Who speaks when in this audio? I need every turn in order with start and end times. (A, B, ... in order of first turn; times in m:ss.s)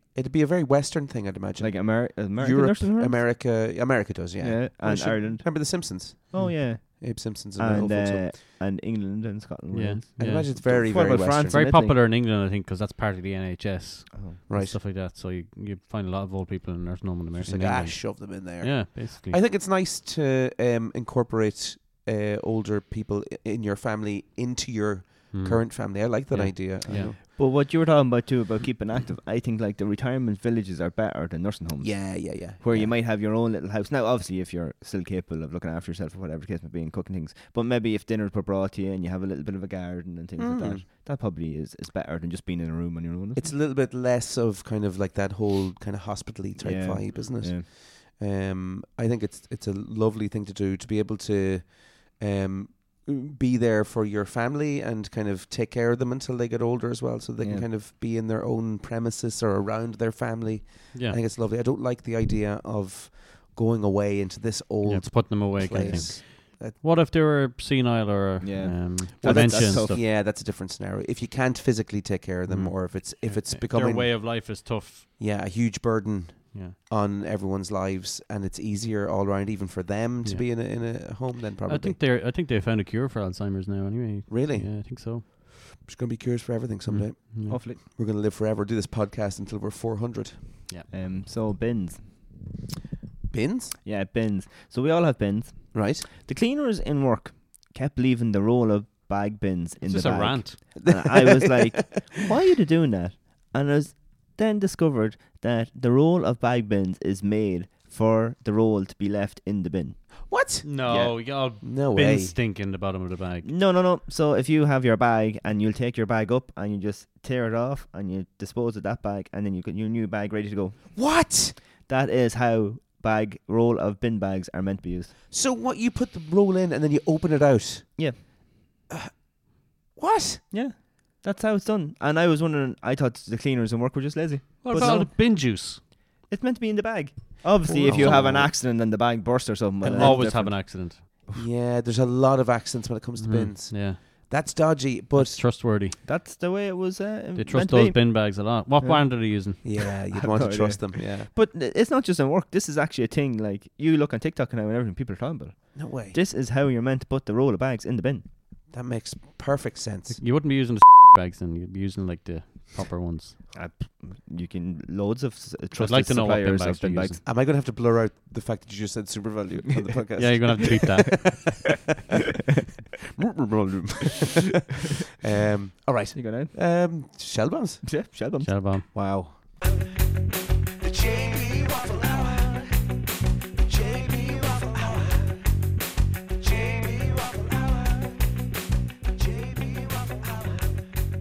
0:00.1-0:08.4 A
0:01.6-0:03.2 B
0:04.4-0:12.0 B
0:09.7-0:19.4 C
0:10.2-0:11.6 A
0:14.1-0:14.4 B
0:14.5-0:14.8 A
0:17.4-0:27.2 A
0:25.3-0:27.2 C
0:26.8-0:43.5 B
0:31.8-0:33.0 A
0:40.4-0:40.8 A
0:43.3-1:06.8 A
0:46.6-0:47.7 B
0:57.4-0:57.7 B
1:00.9-1:01.2 C
1:04.8-1:10.0 C
1:05.6-1:06.1 B
1:08.4-1:10.0 B
1:09.2-1:14.3 A
1:12.5-1:15.1 C
1:15.2-1:22.0 A
1:20.2-1:25.2 C
1:24.3-1:30.6 A
1:26.9-1:27.6 C
1:27.5-1:27.8 B
1:30.9-1:32.3 B
1:33.3-1:33.8 A
1:33.8-1:50.3 B
1:35.7-1:36.0 A
1:39.8-1:40.6 C
1:40.8-1:42.1 A
1:50.3-1:52.4 A
1:50.6-1:53.5 C
1:50.8-1:51.2 B
1:53.4-2:05.1 B
2:00.9-2:01.6 A
2:05.3-2:08.1 A
2:10.0-2:10.5 A
2:10.5-2:15.2 B
2:14.6-2:15.8 C
2:14.7-2:15.0 A
2:16.3-2:21.4 B
2:17.6-2:18.5 A
2:17.8-2:18.2 C
2:19.8-2:20.5 A
2:19.8-2:21.0 C
2:21.3-2:25.4 A
2:23.2-2:24.3 C
2:25.1-2:26.0 C
2:26.0-2:38.3 B
2:27.4-2:29.8 C
2:29.6-2:31.3 A
2:35.7-2:36.2 A
2:38.7-2:40.2 A
2:40.2-2:43.4 C
2:43.5-2:47.2 B
2:45.8-2:47.2 C
2:47.2-2:51.7 A
2:50.2-2:51.5 C
2:53.2-2:54.7 A
2:55.2-2:58.0 A
2:56.1-2:56.5 B
2:57.8-2:58.5 B
2:58.4-2:58.9 C
2:58.8-2:59.5 A
3:00.8-3:02.8 A
3:03.7-3:05.4 A
3:06.4-3:08.1 A
3:09.2-3:10.7 A